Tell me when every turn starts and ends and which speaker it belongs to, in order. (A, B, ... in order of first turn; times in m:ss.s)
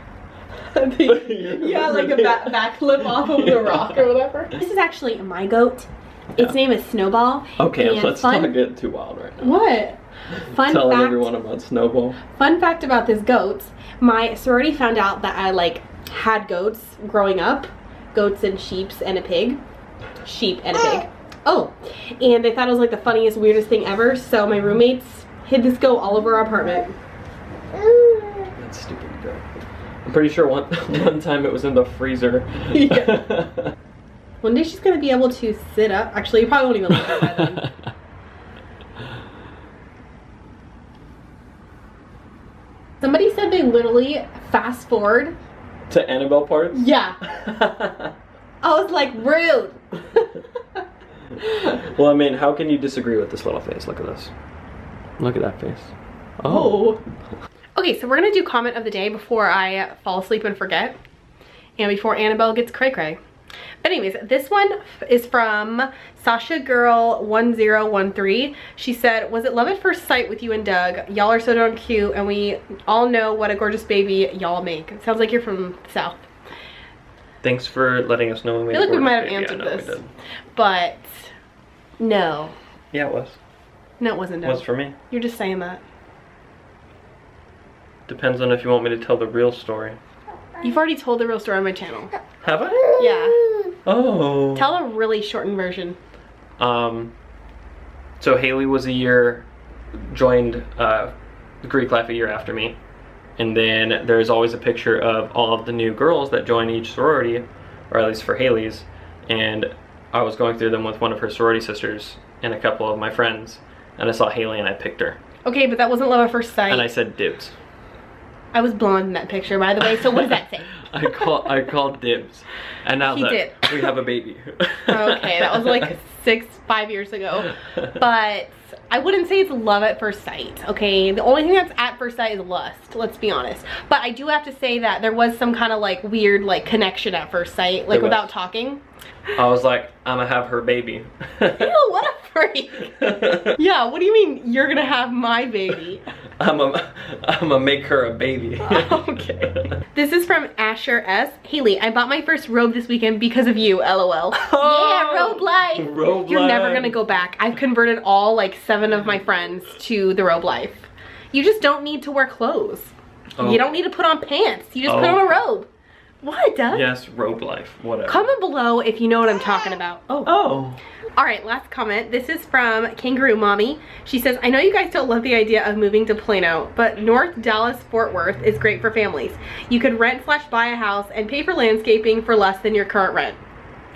0:00.7-0:08.6 A
0:01.0-0:04.0 B
0:07.6-0:09.7 B
0:09.4-0:11.3 A
0:10.4-0:12.2 B
0:12.3-0:19.6 A
0:20.2-0:26.9 A
0:27.9-0:28.4 A
0:28.6-0:29.4 B
0:30.0-0:33.7 B
0:32.7-0:33.2 A
0:34.4-0:37.7 A
0:36.9-0:37.4 B
0:43.0-0:45.3 A
0:45.9-0:48.1 B
0:46.7-0:47.2 A
0:48.6-0:50.8 A
0:51.6-0:54.3 B
0:55.2-0:56.9 B
0:56.4-0:57.0 A
0:57.8-1:01.0 A
1:01.8-1:03.2 A
1:03.8-1:16.3 A
1:17.4-1:20.1 B
1:18.7-1:20.0 A
1:20.5-1:21.3 A
1:22.0-1:22.5 A
1:22.9-1:23.4 B
1:24.0-1:25.8 A
1:24.4-1:24.9 B
1:28.1-1:30.0 B
1:30.6-1:32.1 A
1:32.4-1:33.3 B
1:33.0-1:33.5 A
1:33.8-1:34.7 B
1:34.5-1:36.0 A
1:36.6-1:37.1 B
1:38.2-1:39.4 B
1:40.1-1:42.8 B
1:43.4-1:55.2 B
1:55.4-1:56.9 A
1:56.7-1:57.5 B
1:58.5-2:01.3 A
2:00.9-2:05.9 B
2:03.0-2:03.9 A
2:04.9-2:18.8 A
2:17.9-2:18.3 B
2:19.4-2:21.7 B
2:21.5-2:26.0 A
2:22.8-2:23.5 B
2:26.4-2:29.1 B
2:28.6-2:45.7 A
2:34.3-2:37.0 B
2:43.4-2:43.7 B
2:44.8-2:45.4 B
2:46.2-2:46.9 A
2:46.7-2:48.3 B
2:48.1-2:50.3 A
2:50.2-2:50.8 B
2:51.2-3:03.4 A